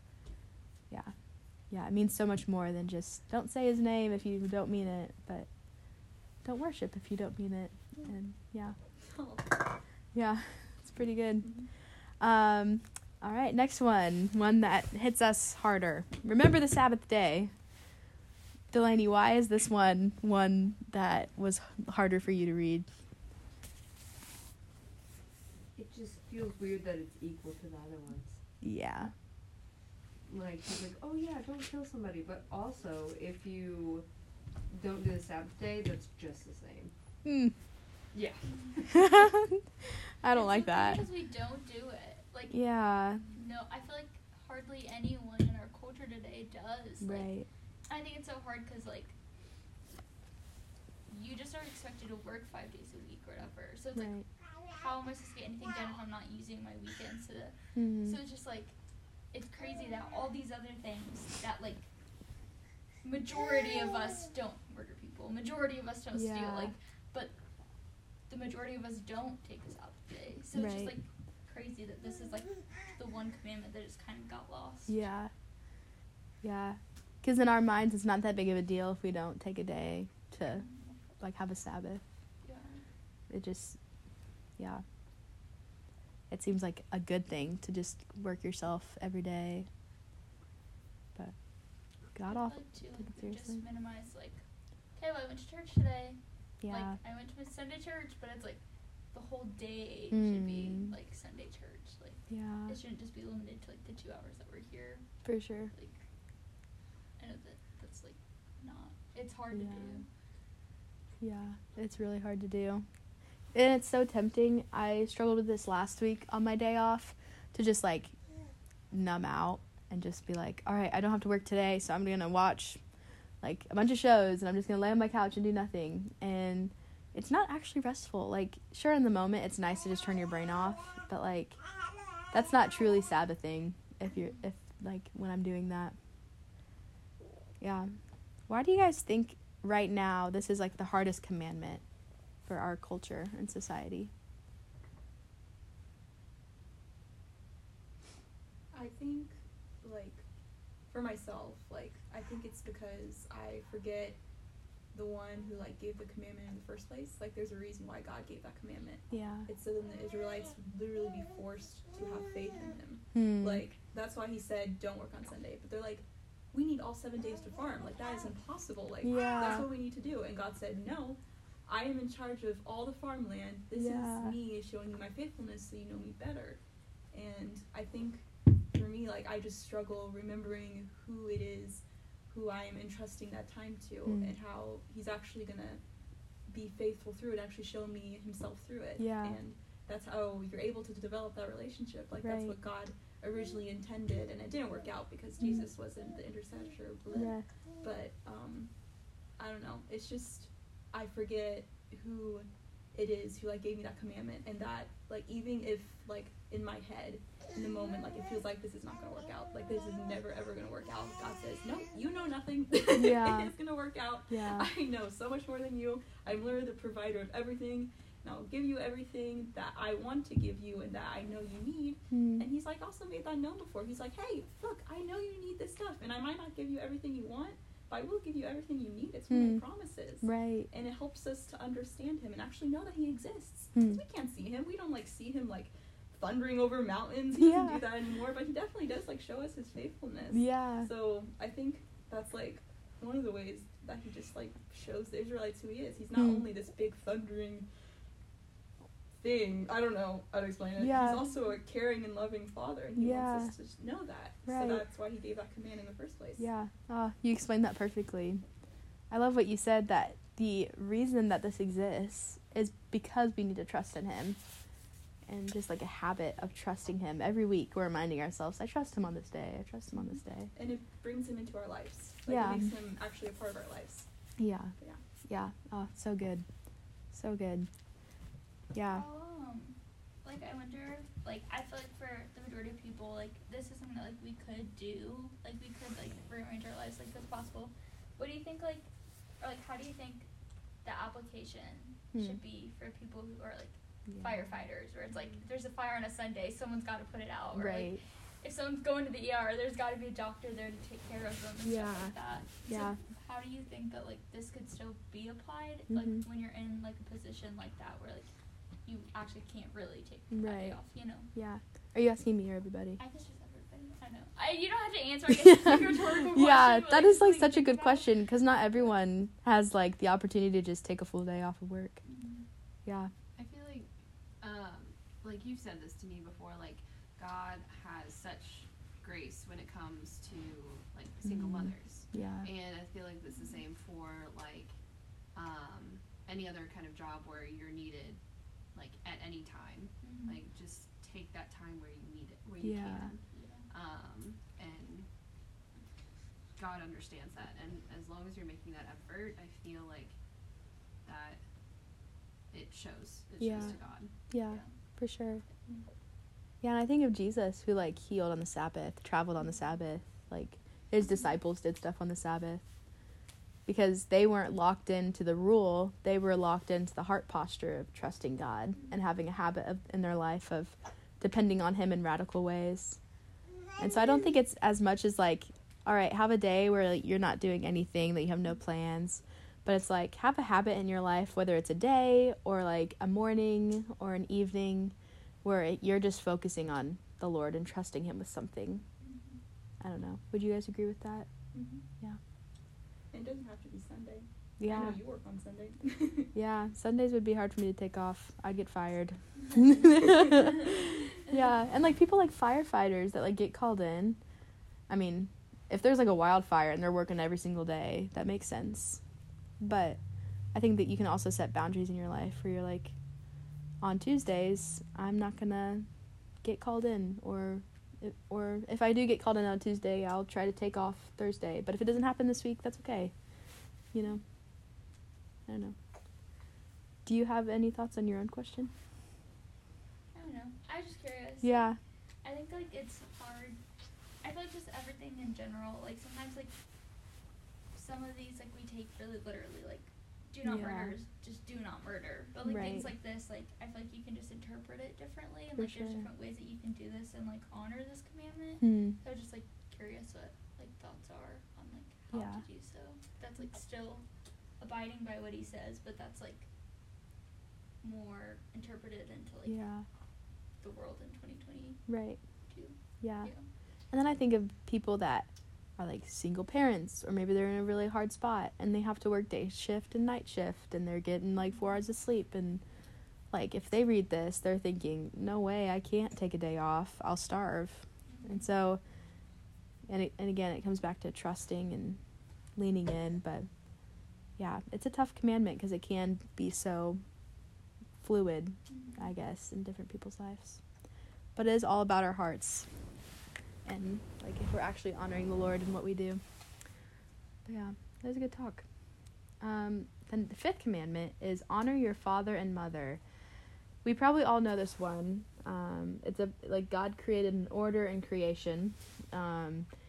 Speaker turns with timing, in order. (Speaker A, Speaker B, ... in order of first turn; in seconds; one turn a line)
Speaker A: 0.9-8.8
Speaker B: 9.0-9.6
Speaker A: 10.1-11.6
Speaker B: 11.4-11.7
Speaker A: 12.2-17.5
Speaker A: 18.7-22.9
Speaker C: 25.8-28.4
Speaker A: 28.6-29.1
Speaker C: 30.2-34.1
Speaker C: 34.6-36.9
Speaker A: 37.2-37.5
Speaker C: 38.1-39.2
Speaker D: 38.5-38.8
Speaker A: 38.9-41.0
Speaker D: 40.3-42.6
Speaker A: 42.5-43.2
Speaker D: 43.4-47.3
Speaker A: 47.0-47.5
Speaker D: 47.9-49.1
Speaker D: 51.1-58.7
Speaker A: 54.0-54.3
Speaker A: 57.8-58.2
Speaker D: 59.3-61.9
Speaker D: 63.0-67.3
Speaker A: 66.1-66.7
Speaker D: 68.3-75.0
Speaker A: 70.5-70.9
Speaker A: 74.9-75.3
Speaker A: 76.4-80.7
Speaker D: 80.6-81.0
Speaker A: 81.2-82.0
Speaker D: 82.4-82.8
Speaker A: 83.3-83.8
Speaker A: 84.6-84.8
Speaker A: 86.3-89.7
Speaker A: 92.1-93.6
Speaker D: 92.3-94.4
Speaker D: 95.0-98.6
Speaker A: 96.6-97.0
Speaker D: 99.1-105.1
Speaker A: 100.1-100.9
Speaker A: 102.3-102.8
Speaker A: 105.2-105.7
Speaker D: 105.7-106.0
Speaker D: 107.2-110.1
Speaker A: 109.5-110.0
Speaker A: 111.2-112.9
Speaker A: 113.5-118.2
Speaker A: 118.9-122.8
Speaker A: 123.4-131.6
Speaker A: 132.3-135.9
Speaker A: 137.6-138.0
Speaker A: 138.5-141.8
Speaker A: 142.4-144.1
Speaker B: 148.7-150.2
Speaker B: 150.9-154.2
Speaker B: 154.9-176.6
Speaker A: 159.1-159.5
Speaker A: 163.1-163.7
Speaker A: 169.0-169.7
Speaker A: 173.8-174.4
Speaker B: 177.1-198.7
Speaker A: 184.1-184.3
Speaker A: 189.0-189.4
Speaker A: 192.2-192.6
Speaker A: 195.4-195.7
Speaker A: 197.2-197.5
Speaker B: 199.4-247.7
Speaker A: 212.9-213.6
Speaker A: 214.3-214.7
Speaker A: 222.1-222.5
Speaker A: 229.3-229.7
Speaker A: 230.2-230.7
Speaker A: 233.7-234.0
Speaker A: 237.3-237.8
Speaker A: 240.3-240.9
Speaker A: 246.1-246.5
Speaker B: 249.2-256.5
Speaker A: 250.8-251.3
Speaker A: 253.0-253.5
Speaker A: 254.4-254.8
Speaker A: 256.4-258.4
Speaker A: 259.1-264.4
Speaker A: 265.3-270.5
Speaker B: 270.6-274.1
Speaker A: 272.3-272.7
Speaker A: 274.4-274.7
Speaker A: 275.2-276.4
Speaker A: 277.1-277.7
Speaker A: 278.7-279.1
Speaker D: 278.9-288.9
Speaker D: 289.4-290.3
Speaker D: 290.8-308.3
Speaker A: 292.1-292.4
Speaker A: 294.1-294.4
Speaker A: 297.5-298.0
Speaker A: 301.6-303.0
Speaker A: 305.9-306.2
Speaker D: 308.9-311.3
Speaker A: 310.3-310.8
Speaker A: 311.3-313.0
Speaker D: 313.0-318.2
Speaker A: 315.4-322.0
Speaker D: 322.1-322.5
Speaker A: 322.9-323.1
Speaker E: 323.4-334.8
Speaker A: 331.2-332.5
Speaker D: 333.3-333.6
Speaker E: 335.3-345.1
Speaker D: 340.0-340.4
Speaker A: 342.6-343.1
Speaker D: 343.3-343.7
Speaker E: 346.6-350.2
Speaker E: 351.0-351.4
Speaker E: 352.5-354.1
Speaker A: 353.4-355.4
Speaker A: 356.6-362.6
Speaker A: 363.7-373.0
Speaker A: 373.8-388.8
Speaker D: 389.0-389.4
Speaker A: 389.8-391.3
Speaker B: 391.5-391.8
Speaker B: 393.1-396.3
Speaker A: 394.6-395.0
Speaker A: 396.3-404.2
Speaker A: 404.9-409.0
Speaker A: 409.6-413.0
Speaker A: 413.8-415.9
Speaker A: 416.4-423.1
Speaker A: 423.9-424.2
Speaker A: 425.5-425.8
Speaker A: 427.1-428.7
Speaker D: 430.1-431.7
Speaker A: 431.4-431.8
Speaker D: 432.2-433.6
Speaker D: 434.2-436.5
Speaker D: 437.8-454.0
Speaker A: 440.4-440.9
Speaker A: 442.4-442.9
Speaker A: 445.6-446.1
Speaker A: 448.6-449.0
Speaker A: 452.1-452.4
Speaker D: 454.6-456.5
Speaker D: 457.8-459.6
Speaker A: 459.5-459.9
Speaker D: 460.6-461.9
Speaker A: 461.9-462.2
Speaker D: 462.5-463.4
Speaker A: 463.0-463.3
Speaker A: 463.9-472.6
Speaker A: 473.3-478.8
Speaker D: 478.1-478.4
Speaker A: 479.9-482.0
Speaker A: 482.6-487.0
Speaker A: 488.0-490.6
Speaker D: 488.7-489.1
Speaker A: 491.4-492.7
Speaker A: 493.6-496.2
Speaker A: 497.5-498.6
Speaker A: 499.4-503.0
Speaker A: 503.8-509.7